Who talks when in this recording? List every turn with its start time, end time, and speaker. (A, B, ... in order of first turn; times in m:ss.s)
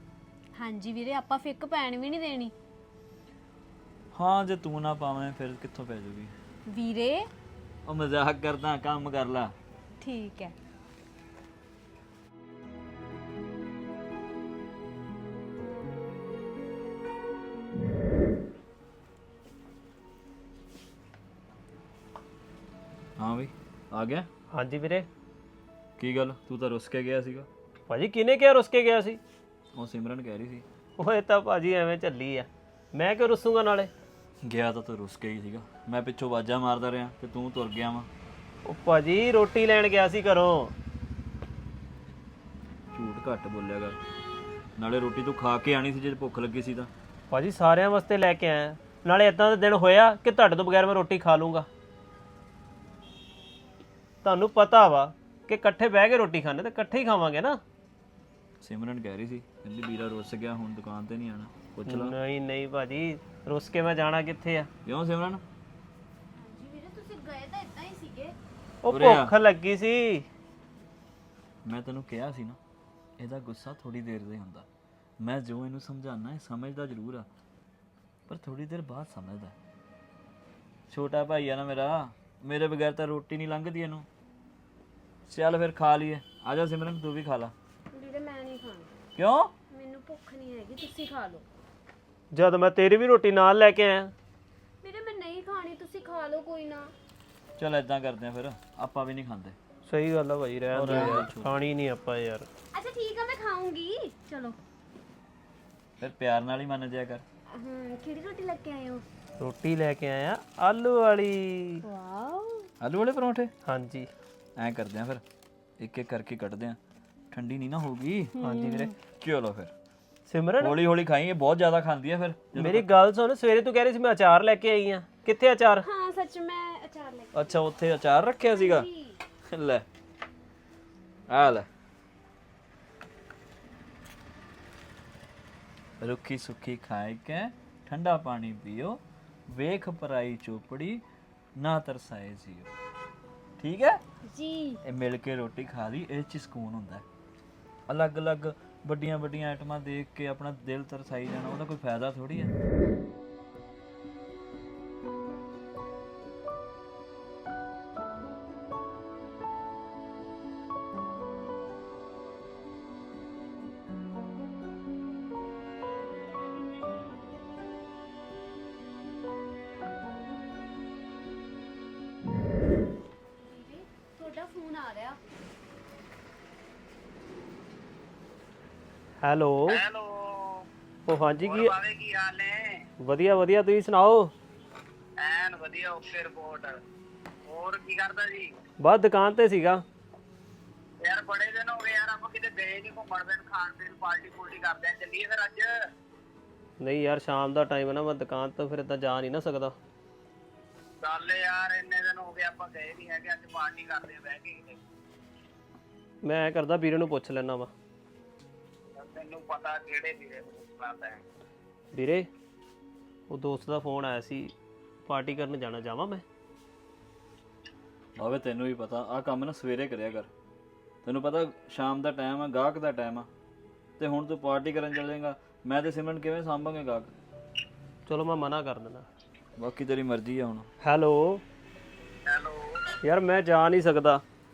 0:00.6-0:02.5 A
0:04.1-0:06.3 B
0:06.7-0:07.2 A
0:07.8-0:09.5 B
0:10.0-0:10.5 A
0:23.2-0:24.3 B
0:24.5-0:25.1 C
0:26.0-0:27.5 B
0:27.9-0:29.2 C
0:29.7-0:30.6 B
0:31.0-0:33.9 C
0:34.4-0:38.1 B
0:38.6-0:40.7 C
0:42.9-0:44.0 B
0:44.8-0:46.9 B
0:47.3-0:51.7 C
0:54.2-0:57.6 C
0:58.6-1:02.1 B
1:01.9-1:04.7 C
1:04.8-1:05.4 B
1:06.4-1:08.3 A
1:08.8-1:10.2 C
1:08.9-1:09.3 B
1:11.6-1:12.6 B
1:13.2-1:14.6 B
1:15.2-1:17.3 B
1:18.3-1:19.5 B
1:20.9-1:24.1 B
1:25.3-1:27.5 B
1:27.9-1:28.9 A
1:29.2-1:29.5 B
1:29.7-1:31.4 A
1:32.3-1:34.1 C
1:34.8-1:36.9 A
1:37.6-1:39.6 B
1:39.8-1:42.5 C
1:40.7-1:41.6 B
1:42.7-1:44.6 A
1:46.0-1:47.2 B
1:47.6-1:49.0 A
1:49.4-1:51.8 C
1:52.0-1:52.4 A
1:52.8-1:53.5 B
1:53.6-1:54.1 C
1:54.6-1:55.2 B
1:55.8-1:56.8 B
1:57.3-1:58.3 B
1:58.4-1:58.9 C
1:58.6-1:58.8 A
1:59.2-1:59.7 B
2:00.3-2:00.8 C
2:00.6-2:02.9 B
2:02.6-2:05.8 C
2:05.8-2:07.6 A
2:07.3-2:08.9 B
2:08.4-2:09.2 A
2:09.4-2:09.8 B
2:11.3-2:11.7 B
2:16.0-2:21.0 B
2:21.6-2:22.7 B
2:23.6-2:24.0 B
2:24.8-2:27.0 B
2:27.9-2:32.5 B
2:53.4-2:55.2 A
2:59.2-2:59.8 C
2:59.7-3:00.7 D
3:01.1-3:01.8 C
3:01.4-3:02.8 D
3:03.0-3:04.3 C
3:05.2-3:06.8 D
3:07.4-3:08.5 D
3:08.8-3:09.8 C
3:11.0-3:15.7 D
3:16.8-3:19.8 C
3:21.0-3:24.8 D
3:26.2-3:27.7 C
3:29.0-3:31.2 D
3:31.9-3:32.3 C
3:33.3-3:34.5 C
3:35.0-3:36.2 C
3:38.2-3:40.3 B
3:41.0-3:43.3 B
3:44.0-3:47.1 B
3:48.1-3:49.1 C
3:49.6-3:50.7 B
3:50.8-3:51.4 C
3:52.2-3:52.8 D
3:53.0-3:54.2 C